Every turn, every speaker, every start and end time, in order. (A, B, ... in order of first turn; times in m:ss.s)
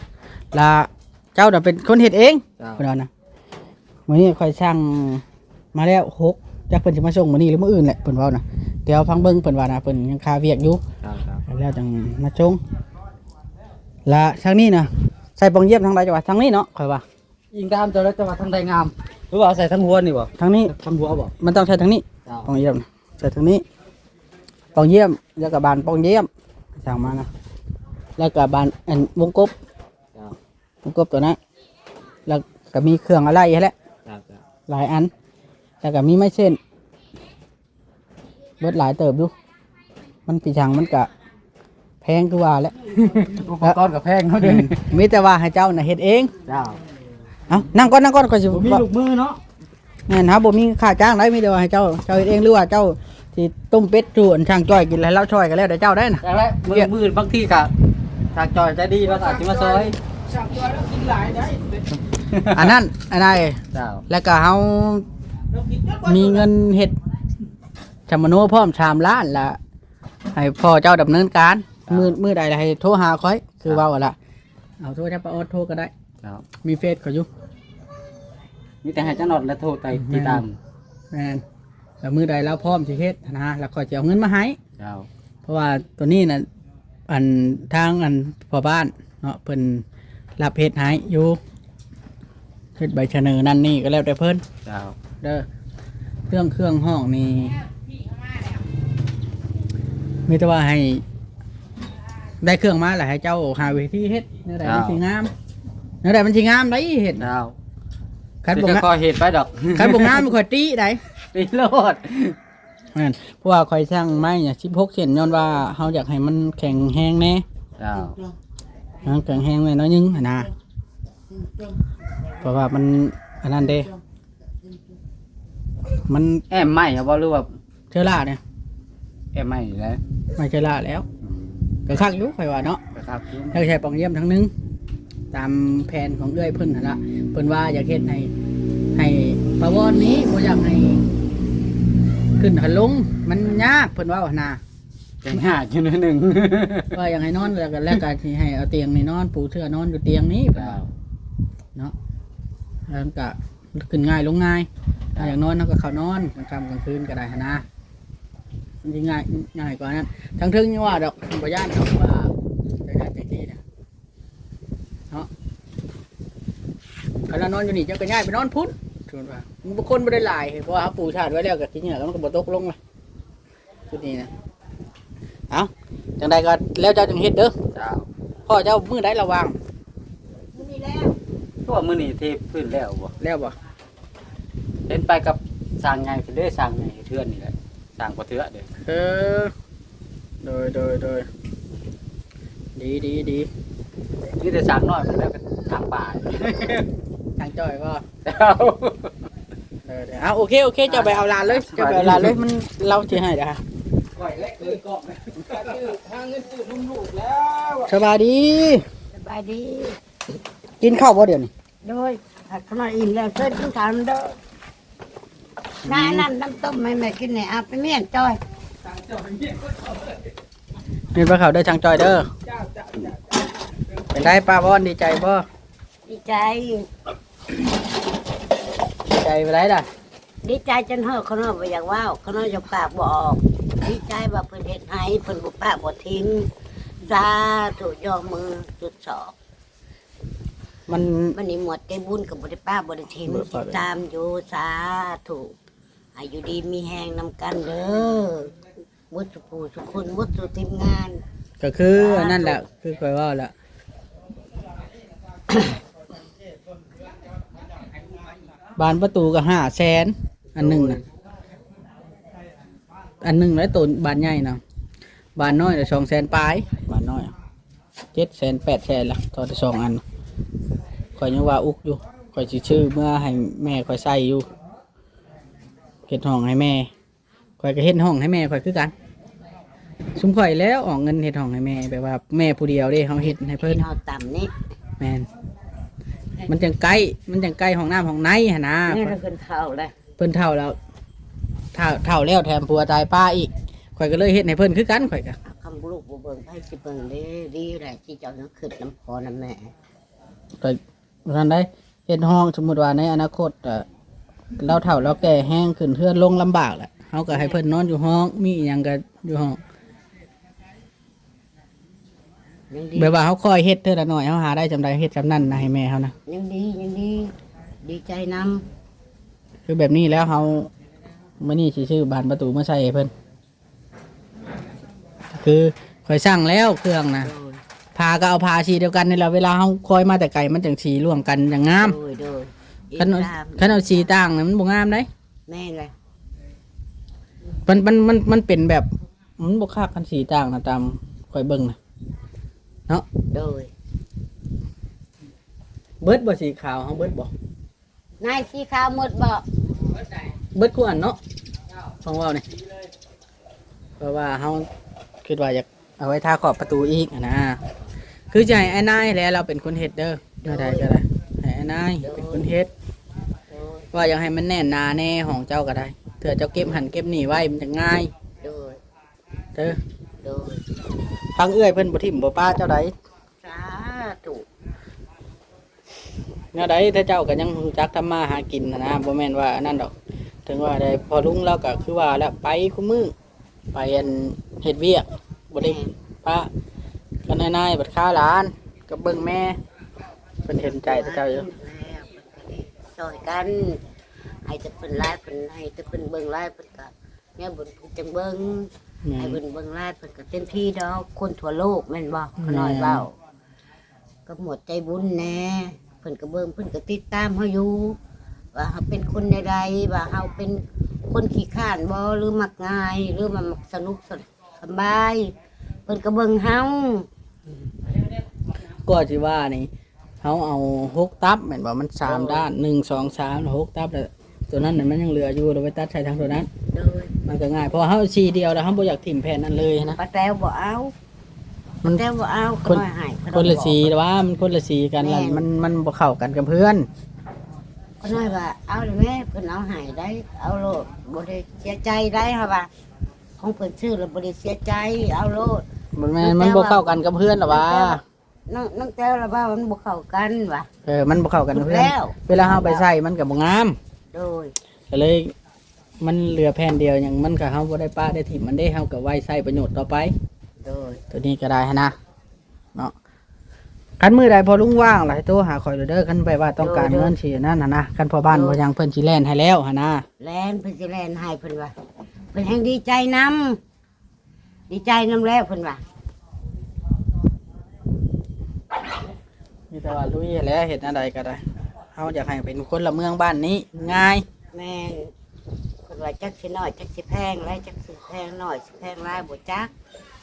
0:00.5-0:03.1 A
0:04.1-0:10.8 A
0:11.0-0:11.4 B
0:11.4-0:12.6 A
0:14.0-0:17.0 A
0:17.5-0:21.3 B
0:18.3-0:18.7 C
0:19.6-0:19.9 C
0:20.4-0:20.7 A
0:20.9-0:21.2 C
0:21.4-0:23.6 A
0:24.7-0:27.3 A
0:28.2-0:29.5 A
0:30.8-0:31.4 A
0:32.3-0:33.7 A
0:34.0-0:34.4 B
0:34.7-0:35.1 A
0:35.8-0:36.6 A
0:38.6-0:39.3 A
0:40.3-0:41.1 A
0:42.0-0:43.8 A
0:43.2-0:44.8 C
0:44.4-0:46.3 A
0:46.5-0:46.8 B
0:47.5-0:48.8 A
0:48.5-0:49.4 C
0:50.1-0:56.9 A
0:56.2-0:57.7 C
0:58.3-0:59.9 C
0:59.1-0:59.9 B
1:02.3-1:02.7 C
1:02.4-1:05.0 A
1:03.8-1:04.0 B
1:06.0-1:07.0 A
1:08.1-1:09.6 A
1:10.3-1:14.2 A
1:14.8-1:15.9 A
1:16.6-1:17.3 A
1:18.8-1:20.6 C
1:19.9-1:20.4 A
1:21.1-1:21.4 A
1:22.0-1:24.6 A
1:24.8-1:25.1 B
1:25.4-1:26.4 A
1:27.1-1:29.8 A
1:30.4-1:31.4 A
1:32.8-1:34.4 A
1:34.6-1:34.9 B
1:35.2-1:35.4 A
1:36.3-1:37.6 A
1:40.3-1:41.0 A
1:42.4-1:45.3 A
1:44.6-1:45.0 C
1:46.0-1:47.3 A
1:47.2-1:47.6 C
1:48.4-1:48.8 A
1:48.5-1:50.2 C
1:49.7-1:51.0 A
1:51.3-1:52.4 C
1:51.5-1:52.0 B
1:52.9-1:57.4 A
1:57.8-1:58.2 B
1:59.0-2:00.5 A
2:02.4-2:03.9 A
2:05.9-2:06.4 A
2:06.5-2:07.5 C
2:07.9-2:08.4 A
2:09.3-2:10.0 C
2:10.4-2:11.0 A
2:11.9-2:12.8 A
2:13.0-2:13.5 C
2:13.5-2:14.5 A
2:15.3-2:18.3 A
2:18.9-2:21.0 A
2:22.4-2:24.6 A
2:25.2-2:26.9 B
2:25.8-2:26.9 C
2:26.9-2:30.8 A
2:32.9-2:37.6 A
2:38.8-2:42.3 A
2:42.8-2:43.6 A
2:47.3-2:52.8 A
2:53.9-2:54.3 A
2:55.5-2:57.5 A
2:57.8-2:58.1 B
2:58.5-2:59.6 A
3:00.5-3:01.9 B
3:01.8-3:03.1 C
3:03.2-3:03.5 A
3:04.9-3:08.7 C
3:08.8-3:09.5 A
3:10.4-3:11.3 A
3:12.7-3:13.5 A
3:14.4-3:16.8 C
3:17.4-3:18.0 A
3:18.2-3:19.1 C
3:19.8-3:23.6 A
3:20.9-3:21.3 B
3:21.6-3:22.4 C
3:24.3-3:24.9 C
3:24.4-3:24.8 B
3:26.3-3:27.0 C
3:27.5-3:28.8 A
3:29.1-3:30.0 B
3:30.8-3:31.5 A
3:31.8-3:34.4 B
3:35.8-3:36.3 A
3:35.8-3:38.4 B
3:41.1-3:42.3 A
3:44.1-3:45.4 A
3:46.1-3:46.9 B
3:49.0-3:49.9 A
3:50.4-3:56.5 B
3:57.0-3:59.3 B
4:00.9-4:01.4 A
4:01.3-4:05.5 B
4:03.2-4:03.8 A
4:06.1-4:08.5 B
4:09.1-4:11.2 B
4:11.6-4:13.5 A
4:12.0-4:12.6 B
4:18.8-4:21.0 A
4:20.6-4:21.0 B
4:23.2-4:24.6 A
4:25.4-4:27.3 A
4:28.1-4:30.0 A
4:31.2-4:34.5 A
4:36.1-4:36.9 A
4:37.6-4:38.9 A
4:40.2-4:43.8 A
4:43.2-4:44.5 B
4:45.0-4:45.3 A
4:46.5-4:49.1 A
4:48.9-4:49.9 B
4:50.2-4:50.8 A
4:51.7-4:55.4 A
4:55.4-4:59.7 B
5:00.6-5:03.8 A
5:04.6-5:09.6 A
5:12.7-5:13.2 B
5:13.0-5:16.1 A
5:16.3-5:18.6 B
5:19.6-5:20.7 A
5:21.4-5:23.1 A
5:25.3-5:27.3 A
5:27.2-5:27.6 B
5:27.9-5:32.0 A
5:31.8-5:34.1 B
5:33.0-5:35.1 A
5:35.5-5:35.9 B
5:37.6-5:38.9 A
5:39.4-5:41.8 A
5:43.3-5:43.7 B
5:46.0-5:47.3 A
5:48.2-5:49.4 B
5:50.5-5:51.2 A
5:52.0-5:52.4 A
5:54.0-5:54.7 A
5:55.2-5:57.6 A
5:58.3-6:02.7 A
6:00.4-6:01.0 B
6:02.0-6:02.5 B
6:03.5-6:03.9 B
6:03.9-6:08.1 A
6:08.4-6:08.8 B
6:10.2-6:10.6 B
6:11.3-6:12.9 A
6:13.4-6:14.4 B
6:16.5-6:19.9 A
6:20.4-6:23.1 A
6:23.7-6:26.5 A
6:25.6-6:25.9 B
6:27.2-6:29.6 A
6:30.4-6:31.5 A
6:30.6-6:33.8 B
6:34.4-6:43.1 B
6:39.0-6:39.4 A
6:42.4-6:43.0 A
6:44.2-6:48.0 B
6:48.5-6:55.3 B
6:55.9-6:57.1 B
6:58.8-6:59.7 A
7:00.2-7:06.5 A
7:02.0-7:02.5 B
7:06.7-7:07.1 B
7:07.2-7:10.0 A
7:10.0-7:10.9 B
7:11.8-7:13.9 B
7:12.6-7:16.9 A
7:15.0-7:15.5 B
7:18.0-7:22.7 B
7:23.4-7:25.6 B
7:25.9-7:28.0 A
7:26.2-7:26.9 B
7:27.4-7:30.7 B
7:30.8-7:33.8 A
7:31.5-7:32.9 B
7:34.1-7:34.5 B
7:34.9-7:35.3 A
7:36.0-7:40.1 A
7:40.6-7:41.0 B
7:41.1-7:41.9 A
7:44.0-7:50.0 A
7:46.6-7:47.1 B
7:48.3-7:48.6 B
7:50.2-7:51.7 B
7:52.3-7:53.6 B
7:54.7-7:55.8 B
7:59.7-8:01.4 A
8:01.9-8:04.2 A
8:04.5-8:05.1 B
8:05.8-8:09.7 B